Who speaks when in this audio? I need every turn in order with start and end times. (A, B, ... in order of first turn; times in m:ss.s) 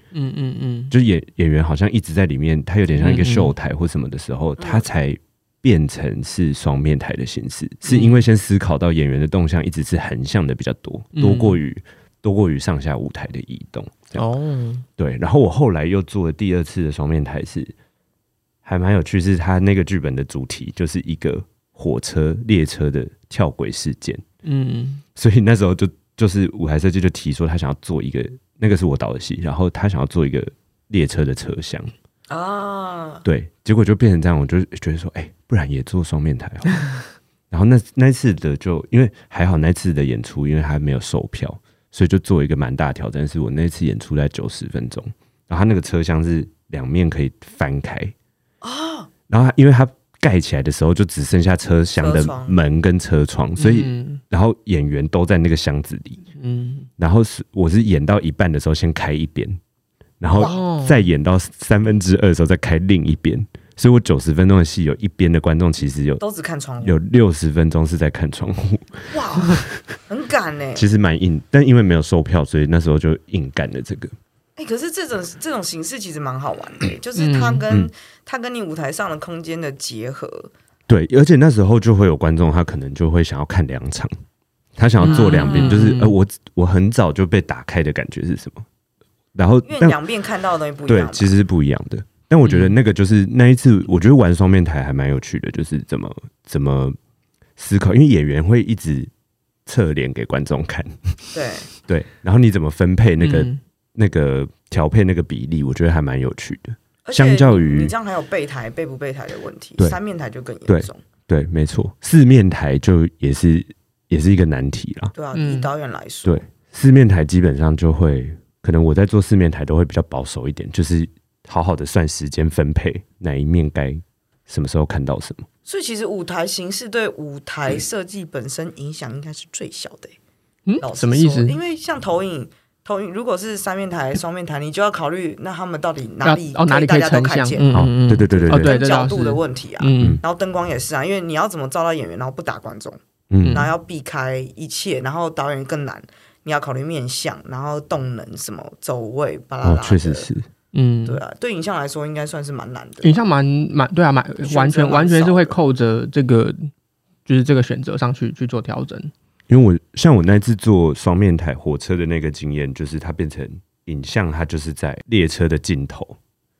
0:00.1-0:00.9 A
0:00.9-0:14.2 B
0:02.9-0:03.6 A
0:04.6-0:04.9 C
0:07.8-0:08.3 A
0:11.1-0:11.6 A
0:14.1-0:14.8 A
0:15.0-0:17.7 B
0:18.6-0:24.2 B
0:24.4-0:25.0 A
0:25.2-0:31.9 B
0:32.3-0:33.2 C
0:33.2-0:36.8 B
0:37.5-0:48.1 B
0:48.6-0:49.1 C
0:49.3-0:56.2 B
0:52.0-0:52.6 C
0:53.6-0:54.2 A
0:56.4-0:56.9 A
0:57.0-0:59.6 B
1:00.2-1:06.2 B
1:00.3-1:00.6 C
1:00.3-1:01.1 A
1:06.2-1:07.0 C
1:06.8-1:09.6 B
1:09.1-1:10.9 C
1:10.8-1:14.1 B
1:14.6-1:20.5 C
1:17.1-1:17.6 A
1:20.9-1:24.1 B
1:24.8-1:28.6 B
1:25.0-1:26.2 A
1:25.0-1:25.8 C
1:29.3-1:30.0 B
1:29.6-1:31.4 C
1:30.9-1:37.0 B
1:32.4-1:32.8 A
1:37.6-1:39.1 B
1:39.6-1:47.9 B
1:41.3-1:41.7 C
1:43.2-1:43.6 A
1:47.0-1:51.0 C
1:50.7-1:55.1 B
1:55.1-1:56.4 C
1:55.3-1:55.7 A
1:56.2-2:05.4 B
2:05.6-2:10.2 C
2:10.7-2:11.6 A
2:10.8-2:17.7 C
2:16.2-2:20.2 A
2:17.7-2:18.8 B
2:18.3-2:30.3 C
2:23.3-2:23.7 B
2:23.4-2:23.7 A
2:29.6-2:30.5 B
2:30.7-2:31.2 A
2:31.0-2:33.2 C
2:33.0-2:36.7 A
2:34.4-2:35.6 C
2:37.2-2:39.1 A
2:39.5-2:46.2 B